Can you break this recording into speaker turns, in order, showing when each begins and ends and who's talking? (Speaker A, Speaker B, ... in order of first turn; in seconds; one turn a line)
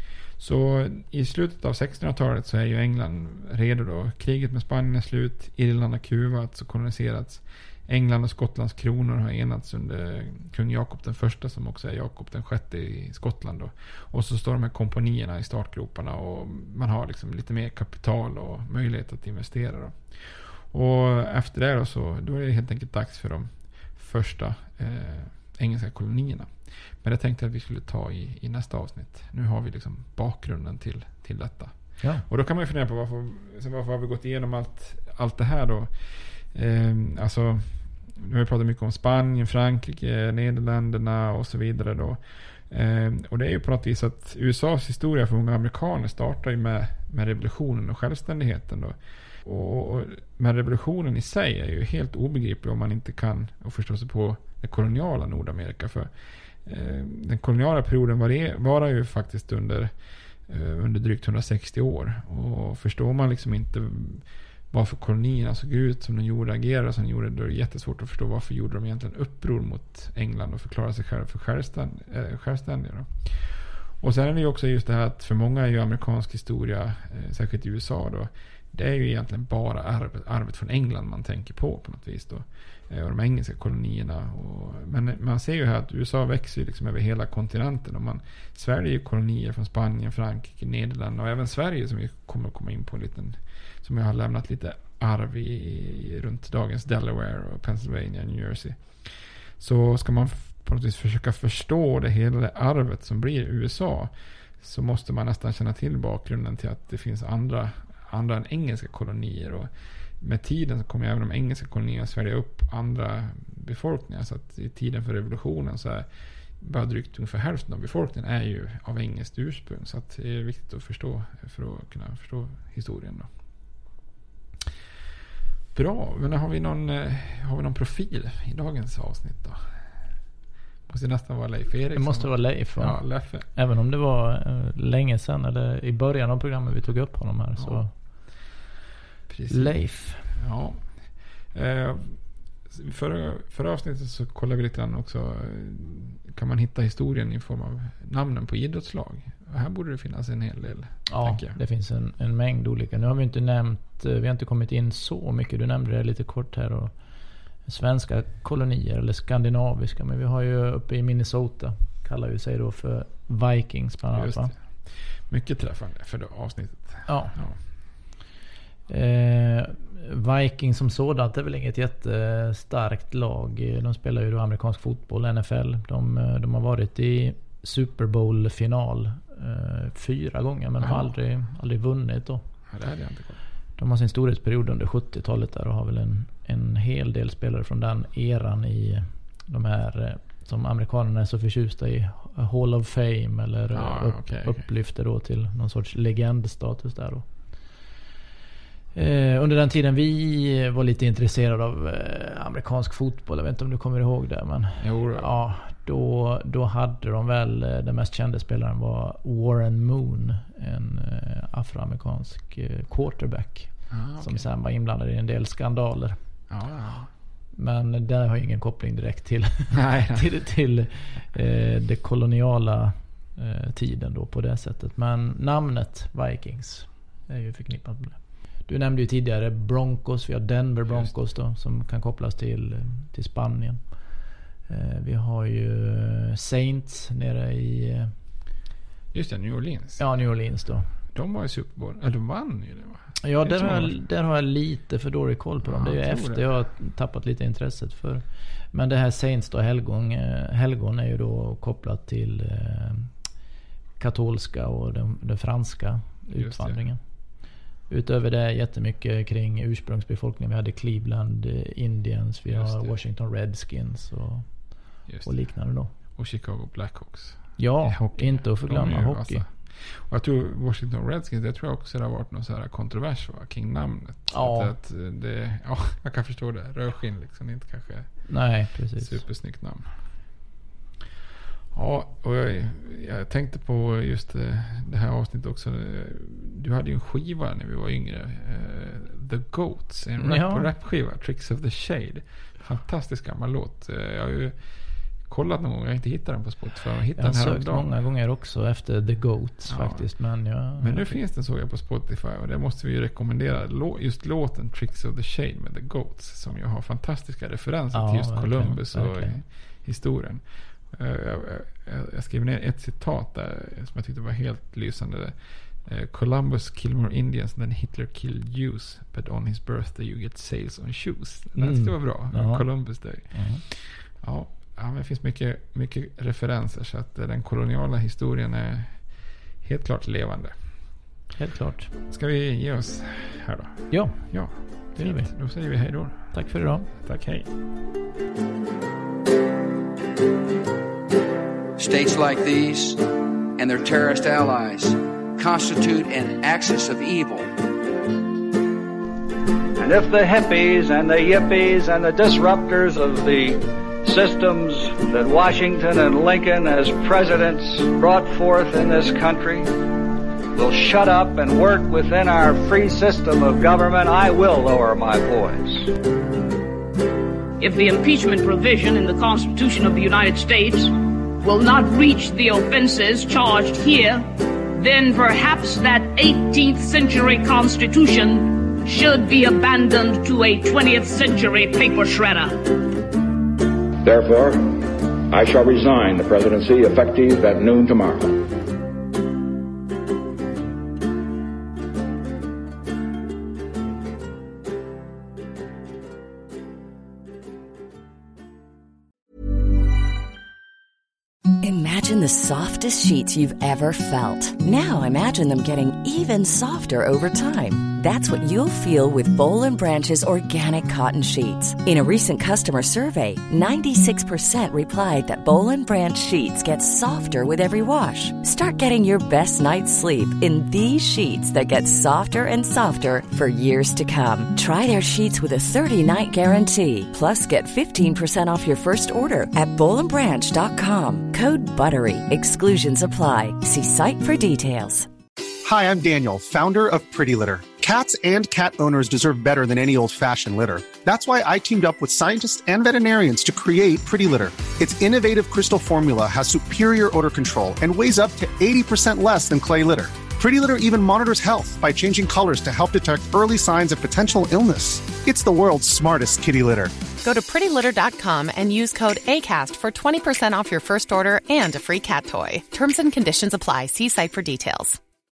Speaker A: 0.4-26.5
Speaker A: 27.0-31.8
Speaker A: 32.3-56.1
Speaker A: 56.6-59.9
Speaker A: 60.5-98.8
Speaker A: 99.6-109.7
Speaker A: 110.2-116.1
Speaker A: 116.6-123.3
Speaker A: 125.7-129.6
Speaker A: 130.9-133.5
Speaker B: 131.9-137.9
Speaker A: 137.6-137.8
Speaker A: 139.3-140.8
Speaker B: 139.5-140.3
Speaker A: 141.5-142.2
Speaker A: 142.7-151.6
Speaker B: 151.1-156.9
Speaker B: 157.7-164.5
Speaker A: 164.1-167.6
Speaker B: 167.1-167.3
Speaker B: 168.9-182.4
Speaker A: 180.8-181.1
Speaker A: 182.7-183.4
Speaker B: 183.8-197.2
Speaker A: 193.7-194.6
Speaker B: 198.9-216.2
Speaker A: 204.8-205.3
Speaker A: 213.9-214.5
Speaker A: 216.5-217.1
Speaker B: 217.6-233.9
Speaker A: 219.7-220.2
Speaker A: 230.9-231.1
Speaker B: 234.7-238.1
Speaker A: 239.1-240.1
Speaker B: 240.0-240.9
Speaker A: 241.1-244.0
Speaker B: 243.2-253.1
Speaker A: 245.6-246.4
Speaker B: 254.0-257.0
Speaker A: 256.3-256.8
Speaker B: 257.9-264.7
Speaker A: 262.5-263.0
Speaker A: 265.1-278.2
Speaker B: 265.2-265.9
Speaker B: 267.6-269.4
Speaker B: 274.3-274.7
Speaker B: 278.3-279.2
Speaker A: 279.0-279.9
Speaker A: 281.7-294.6
Speaker B: 290.2-290.7
Speaker A: 295.3-297.8
Speaker B: 297.2-301.1
Speaker A: 299.7-300.1
Speaker A: 300.8-310.4
Speaker B: 307.9-309.4
Speaker A: 310.9-315.3
Speaker A: 315.9-329.0
Speaker B: 321.6-322.6
Speaker B: 323.3-323.6
Speaker A: 329.6-330.6
Speaker B: 331.4-331.9
Speaker A: 332.1-337.5
Speaker B: 333.9-335.3
Speaker B: 336.3-336.9
Speaker C: 341.8-343.0
Speaker C: 343.6-347.5
Speaker D: 349.8-359.7
Speaker D: 360.5-365.9
Speaker E: 367.6-382.7
Speaker F: 384.0-388.5
Speaker G: 401.6-435.1
Speaker H: 435.6-456.9
Speaker I: 457.2-465.0